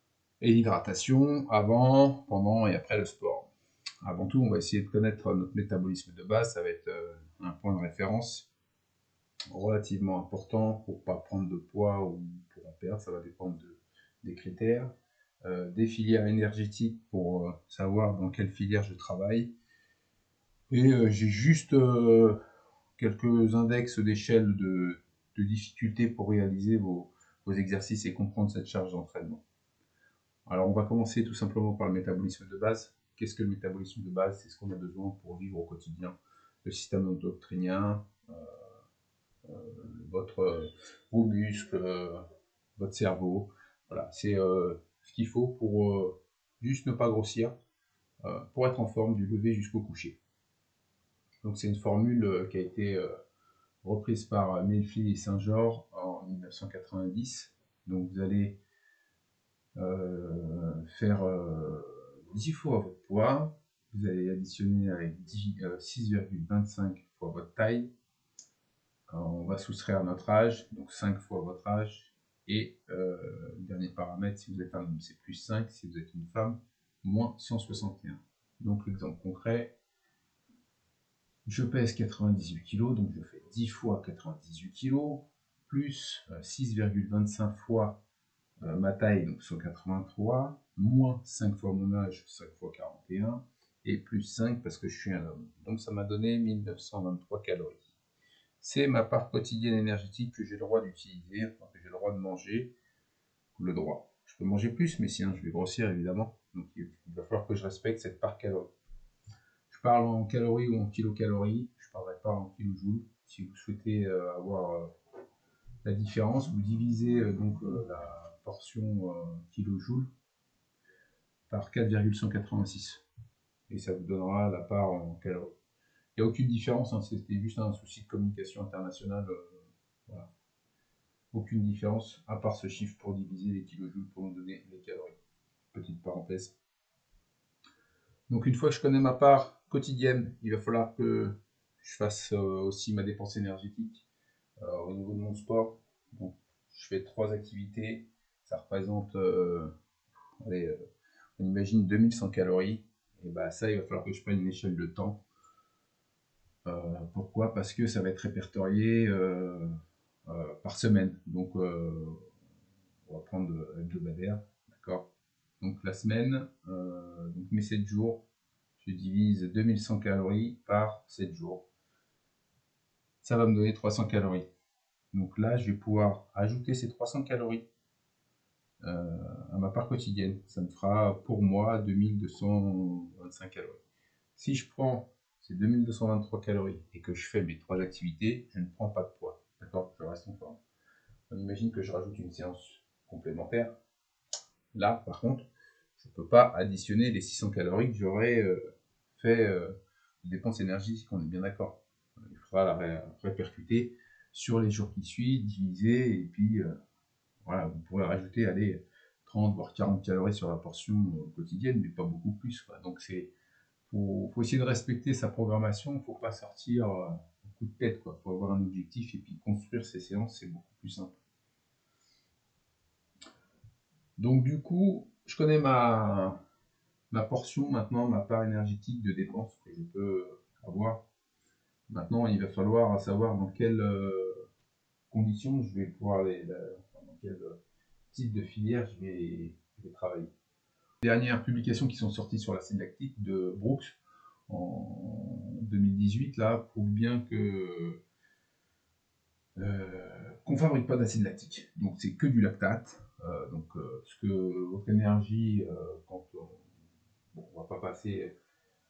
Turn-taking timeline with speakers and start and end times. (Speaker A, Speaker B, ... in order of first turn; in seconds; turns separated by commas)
Speaker A: 0.4-3.5, Speaker A: 4.0-8.5, Speaker A: 9.5-14.9, Speaker A: 15.4-19.5, Speaker A: 20.7-22.4, Speaker A: 23.0-29.4, Speaker A: 30.4-38.5, Speaker A: 39.4-42.2, Speaker A: 42.8-47.5, Speaker A: 48.2-50.2, Speaker A: 51.4-53.1, Speaker A: 53.8-58.6, Speaker A: 59.8-67.9, Speaker A: 69.1-79.7, Speaker A: 81.5-88.0, Speaker A: 88.6-97.9, Speaker A: 98.6-102.7, Speaker A: 103.5-108.7, Speaker A: 109.7-114.9, Speaker A: 115.8-120.1, Speaker A: 121.5-123.0, Speaker A: 123.7-125.5, Speaker A: 126.2-130.3, Speaker A: 131.3-135.2, Speaker A: 135.7-136.5, Speaker A: 138.3-144.0, Speaker A: 144.6-149.7, Speaker A: 150.4-150.8, Speaker A: 151.4-155.2, Speaker A: 156.7-162.2, Speaker A: 163.1-165.1, Speaker A: 165.6-168.2, Speaker A: 168.8-171.6, Speaker A: 173.2-174.5, Speaker A: 175.1-177.6, Speaker A: 178.8-183.8, Speaker A: 184.3-190.6, Speaker A: 191.3-193.7, Speaker A: 194.7-198.6, Speaker A: 199.2-206.7, Speaker A: 207.4-213.3, Speaker A: 213.9-221.2, Speaker A: 224.2-226.4, Speaker A: 227.1-231.0, Speaker A: 231.9-234.4, Speaker A: 235.1-237.6, Speaker A: 238.1-240.3, Speaker A: 241.0-243.9, Speaker A: 244.5-248.0, Speaker A: 249.6-256.6, Speaker A: 257.3-258.3